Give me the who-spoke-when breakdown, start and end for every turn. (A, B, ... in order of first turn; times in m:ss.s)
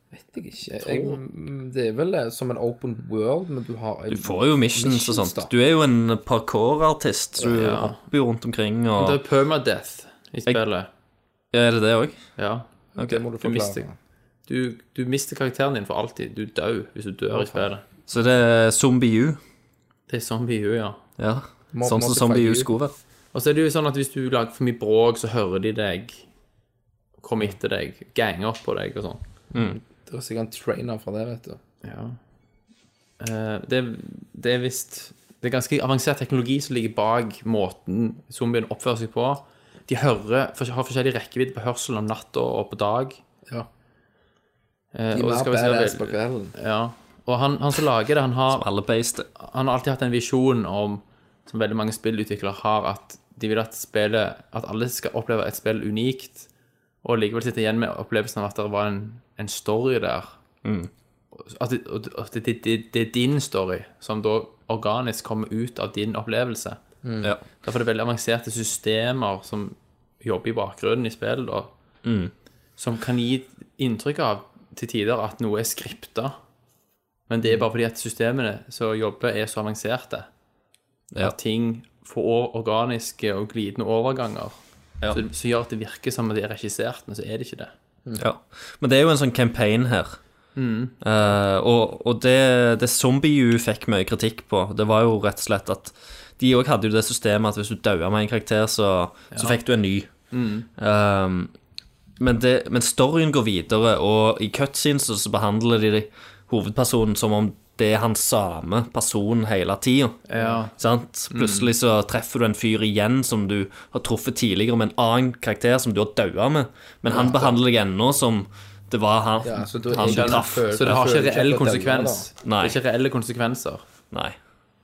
0:00.1-0:05.5 A
0:00.7-0:01.2 B
0:04.1-0:09.2 C
0:07.5-0:08.0 B
0:09.0-0:10.9 B
0:11.5-0:12.2 C
0:12.4-0:12.7 B
0:13.0-0:14.0 A
0:13.4-0:13.8 B
0:14.5-0:17.8 B
0:17.3-0:17.6 A
0:18.1-0:19.4 C
0:20.1-0:21.0 B
0:21.2-0:22.9 C
0:21.7-0:22.7 A
0:23.3-0:26.3 B
0:27.2-0:29.2 B
0:29.5-0:29.8 C
0:29.5-0:31.6 A
0:31.8-0:32.2 B
0:33.2-0:43.2 B
0:44.9-0:48.7 B
0:45.1-0:46.5 A
0:48.5-0:49.3 C
0:49.4-0:56.5 B
0:57.0-1:00.4 B
1:00.6-1:00.9 C
1:01.3-1:06.8 B
1:07.0-1:07.3 A
1:07.6-1:11.7 B
1:12.0-1:12.3 C
1:12.8-1:16.4 B
1:17.3-1:20.3 B
1:21.2-1:27.7 B
1:28.2-1:30.2 C
1:30.6-1:31.0 B
1:31.0-1:40.1 C
1:39.3-1:39.6 B
1:40.3-1:40.7 B
1:40.8-1:41.5 C
1:42.2-1:50.2 C
1:50.3-1:50.8 B
1:50.8-2:01.0 C
1:51.3-1:51.7 B
1:57.2-1:57.5 B
1:59.4-2:02.3 A
2:00.0-2:03.8 B
2:02.4-2:02.8 C